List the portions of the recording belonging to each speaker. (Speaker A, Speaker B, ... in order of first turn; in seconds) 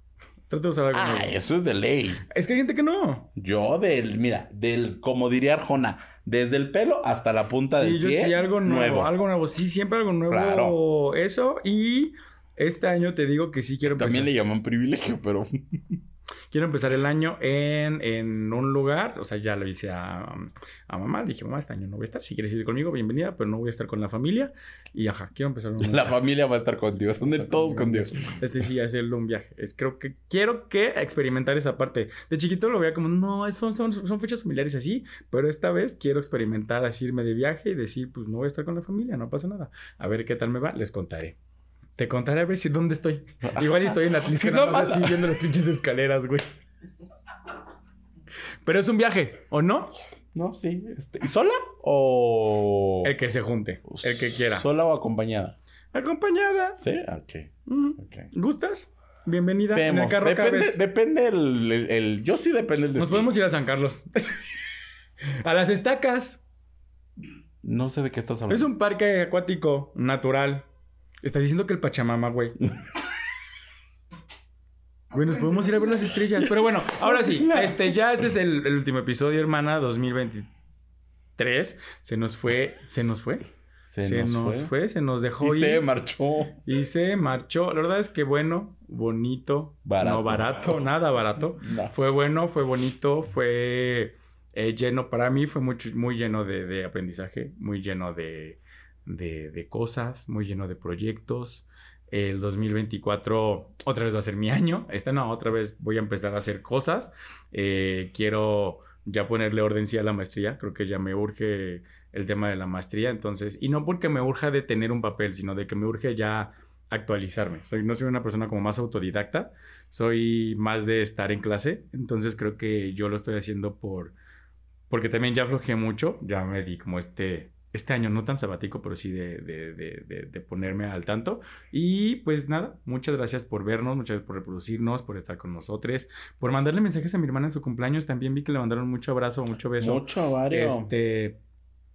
Speaker A: 0.5-1.4, 2.3-3.3, 7.7-14.3, 16.5-26.2, 27.2-41.4, 42.0-46.5, 48.6-49.9, 53.0-54.7, 55.9-56.8, 57.7-60.8, 63.0-64.6, 65.4-66.4, 68.5-70.7, 71.2-72.6, 75.1-80.5, 81.4-83.5, 84.0-85.8, 86.7-124.2, 124.9-141.4
Speaker B: 0.9-2.2, 3.4-9.2, 10.3-10.8, 13.8-16.0, 25.8-28.5, 43.5-45.4, 50.3-53.1, 53.9-55.6, 56.8-58.3, 59.7-63.3, 67.6-68.7, 76.4-77.9, 83.8-84.7, 85.4-86.6, 89.9-90.8, 91.6-91.9, 139.8-140.9